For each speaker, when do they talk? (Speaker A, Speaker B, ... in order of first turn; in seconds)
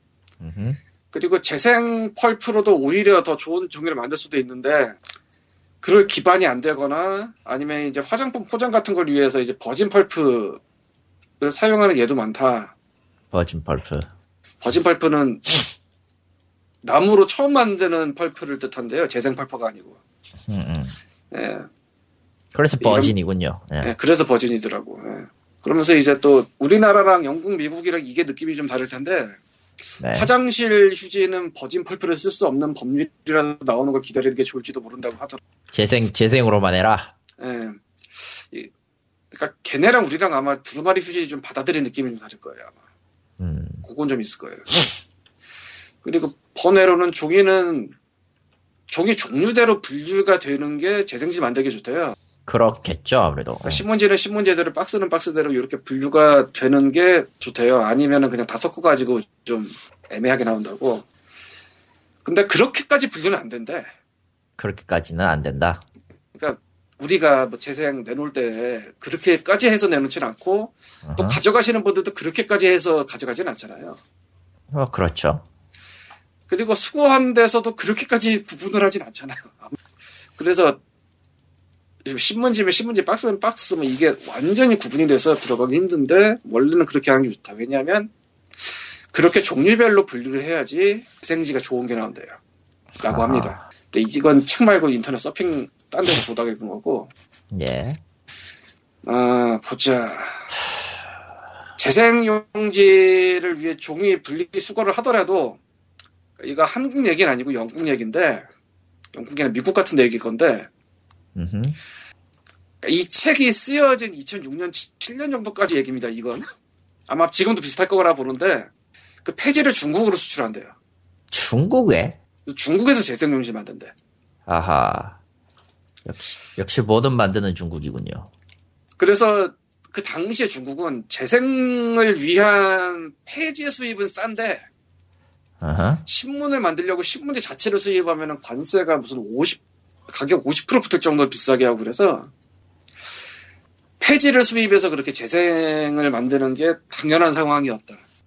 Speaker A: 0.4-0.8, 13.3-14.1, 20.5-21.0, 22.5-23.9, 30.0-30.3, 35.7-37.1, 43.4-43.8, 52.5-53.8, 64.6-65.8, 71.0-71.4, 74.7-75.4, 93.0-93.6, 97.5-98.0, 111.3-111.8, 121.3-122.2, 124.5-125.2, 126.0-128.3, 135.6-136.0
Speaker B: 1.1-5.0, 5.8-10.6, 11.4-12.7, 14.6-15.4, 16.8-20.0, 21.3-21.7, 22.8-23.1, 23.8-29.4, 30.1-35.4, 37.4-38.7, 39.3-42.7, 43.8-44.7, 46.0-47.9, 48.9-52.1, 53.6-61.0, 62.2-63.9, 66.3-74.0, 76.5-79.7, 80.4-80.8, 82.0-88.1, 89.1-92.4, 93.0-97.1, 99.0-100.4, 101.8-105.6, 106.4-108.5, 109.1-110.7, 112.8-116.5, 117.1-118.7, 119.2-120.7, 122.5-123.9, 129.0-134.6, 136.1-142.3, 144.0-148.0